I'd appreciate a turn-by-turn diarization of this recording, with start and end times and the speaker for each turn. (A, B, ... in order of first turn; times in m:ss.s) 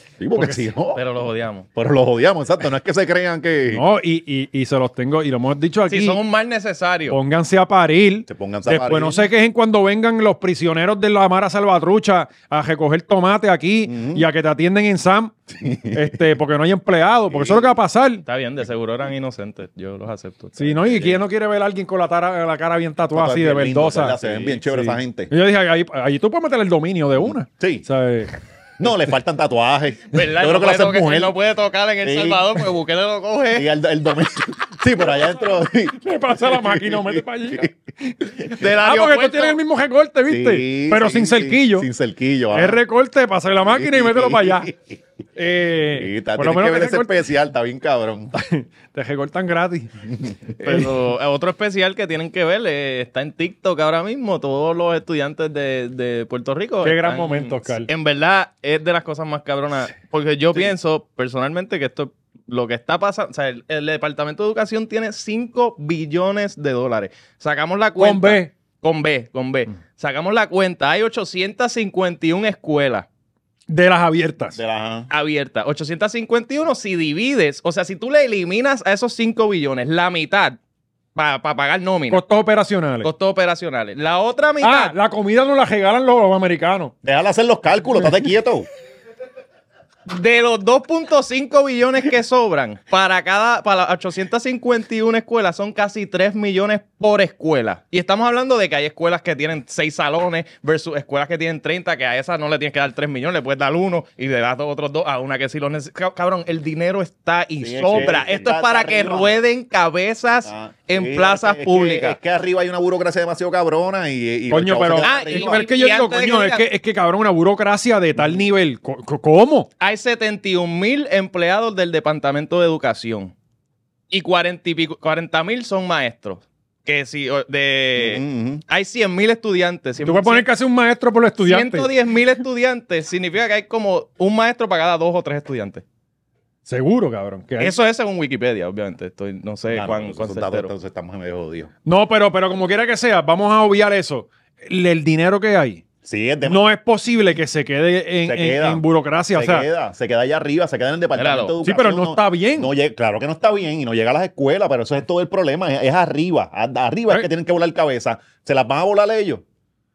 0:00.2-0:01.0 A
0:00.4-0:00.7 B
0:00.9-0:01.6 C
0:01.7-0:03.8 A
0:03.7-0:06.2 B
0:05.9-0:07.2 C
0:07.1-0:15.3 B
0:08.3-0:09.3 A
0:13.8-0:14.3 A
0:15.5-0:16.2 A
0:15.9-0:18.2 B
0:17.3-0:17.8 A
0:18.2-0:21.0 C
0:20.6-0:28.4 B
0:23.1-0:25.3 A
0:27.2-0:27.8 A
0:28.8-0:31.4 A
0:30.1-0:33.7 C
0:32.0-0:32.5 A
0:33.5-0:37.7 A
0:36.0-0:41.9 B
0:38.5-0:39.6 C
0:40.3-0:42.8 A
0:42.5-0:44.7 B
0:43.6-0:45.0 A
0:45.4-0:47.1 B
0:45.9-0:48.3 A
0:48.3-0:50.0 B
0:50.6-1:13.0 C
0:56.8-0:57.9 B
1:08.0-1:08.5 B
1:13.7-1:14.6 B
1:14.5-1:15.1 A
1:15.1-1:20.6 C
1:21.1-1:22.2 C
1:22.1-1:23.1 B
1:23.0-1:24.9 C
1:24.6-1:26.9 B
1:27.0-1:28.7 A
1:30.1-1:52.2 C
1:47.6-1:49.4 A
1:50.4-1:55.6 A
1:54.5-1:59.7 B
1:55.0-1:56.6 C
1:58.2-1:58.4 A
1:59.8-2:03.3 C
2:04.1-2:10.4 C
2:08.0-2:08.6 A
2:10.0-2:11.9 B
2:11.4-2:15.8 C
2:16.7-2:17.7 B
2:17.6-2:20.7 C
2:19.7-2:21.7 A
2:21.8-2:25.8 B
2:26.0-2:26.6 A
2:26.4-2:29.7 B
2:28.2-2:39.4 A
2:31.2-2:31.5 C
2:31.6-2:32.7 B